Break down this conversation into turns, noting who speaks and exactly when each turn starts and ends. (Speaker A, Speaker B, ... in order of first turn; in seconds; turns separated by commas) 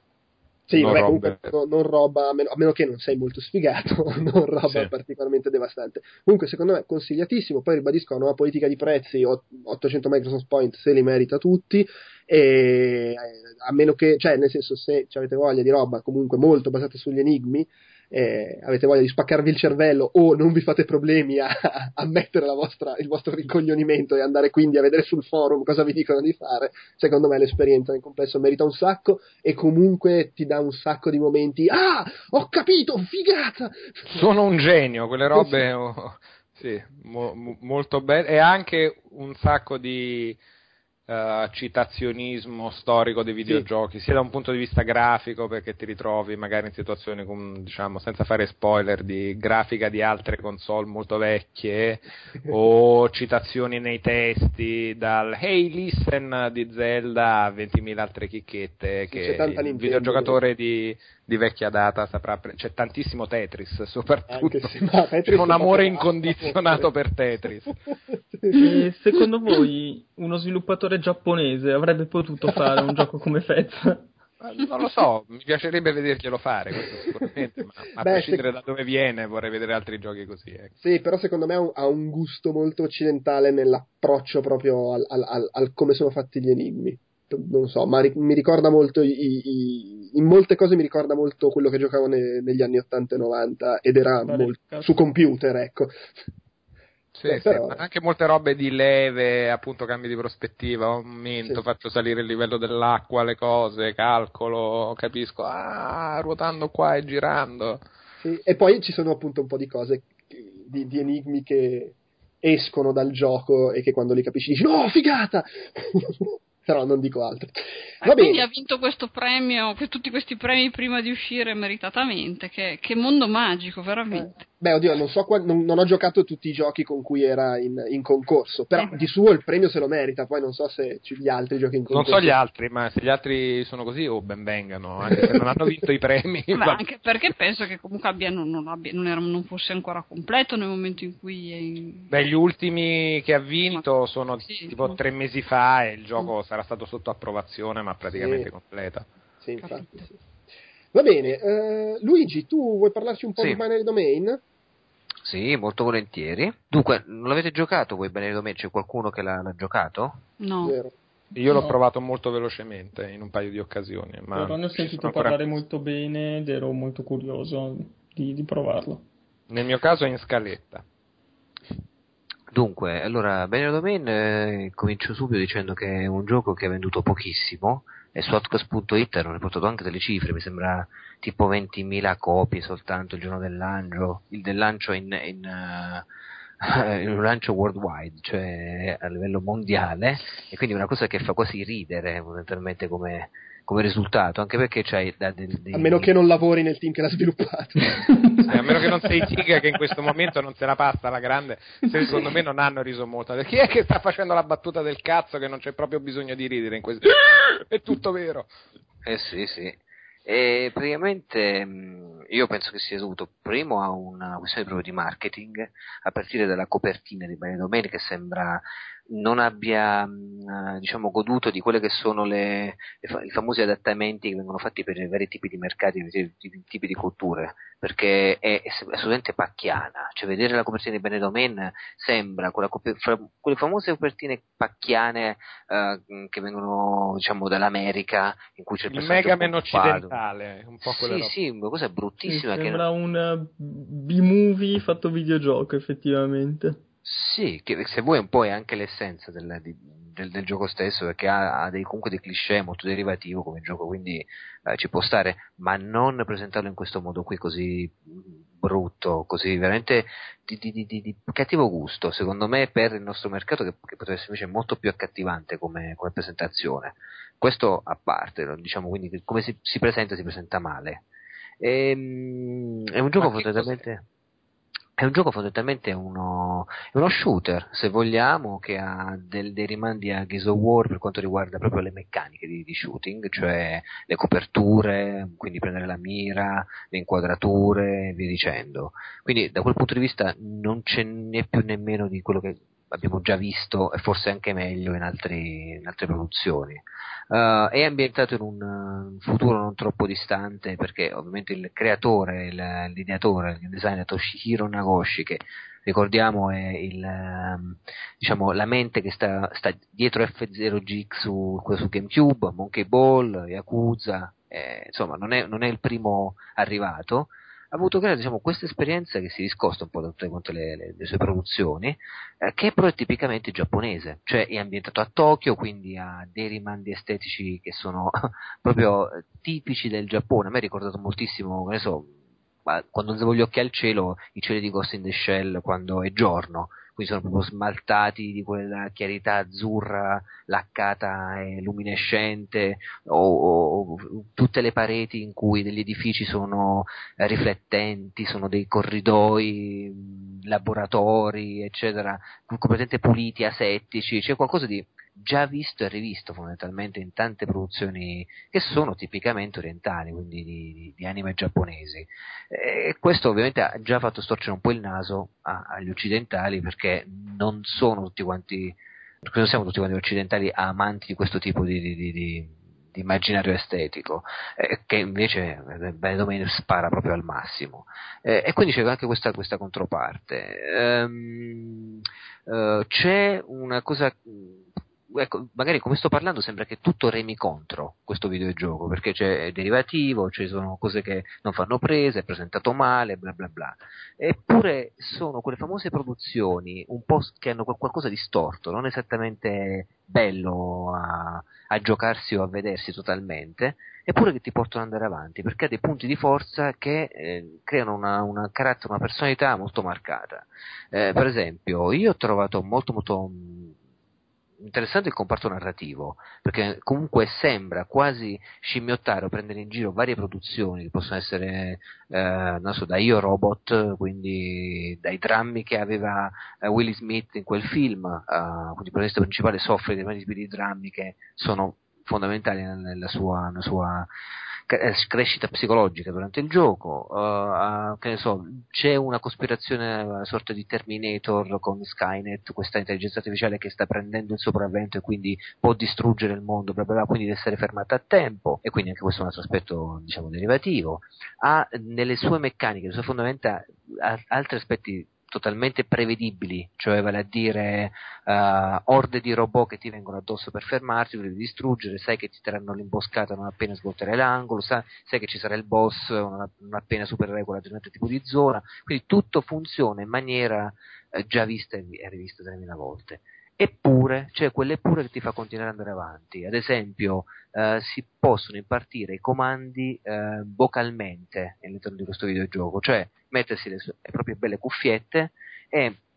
Speaker A: 0.7-34.2, Speaker B: 0.7-1.5, Speaker B: 34.1-40.4, Speaker A: 35.3-35.6, Speaker B: 41.1-67.8, Speaker A: 59.1-60.4, Speaker A: 64.3-66.9, Speaker A: 68.1-68.7, Speaker C: 68.5-74.1, Speaker B: 74.4-80.7, Speaker A: 78.0-78.4, Speaker A: 80.8-96.2, Speaker C: 94.2-94.9, Speaker B: 97.1-107.8, Speaker A: 97.3-97.8, Speaker A: 108.2-118.5, Speaker D: 118.0-124.4, Speaker A: 124.1-132.3, Speaker B: 131.9-136.8, Speaker D: 136.5-142.1, Speaker B: 142.1-149.1, Speaker D: 144.4-144.9, Speaker A: 148.1-148.5, Speaker A: 149.4-150.2, Speaker D: 149.6-150.0, Speaker A: 150.9-154.4, Speaker E: 155.2-160.2, Speaker D: 160.4-160.8, Speaker A: 160.6-160.9, Speaker B: 161.3-165.4, Speaker C: 164.3-169.0, Speaker B: 169.5-170.8, Speaker E: 172.5-186.0, Speaker E: 186.6-196.1, Speaker A: 195.7-199.3, Speaker B: 198.4-208.5, Speaker E: 209.0-240.2, Speaker B: 238.9-241.3, Speaker E: 240.8-242.8, Speaker C: 242.3-246.8, Speaker E: 247.0-271.0, Speaker E: 271.6-274.0, Speaker B: 273.2-273.8, Speaker E: 275.0-332.1, Speaker E: 332.6-413.7, Speaker E: 414.6-434.1, Speaker E: 434.7-486.0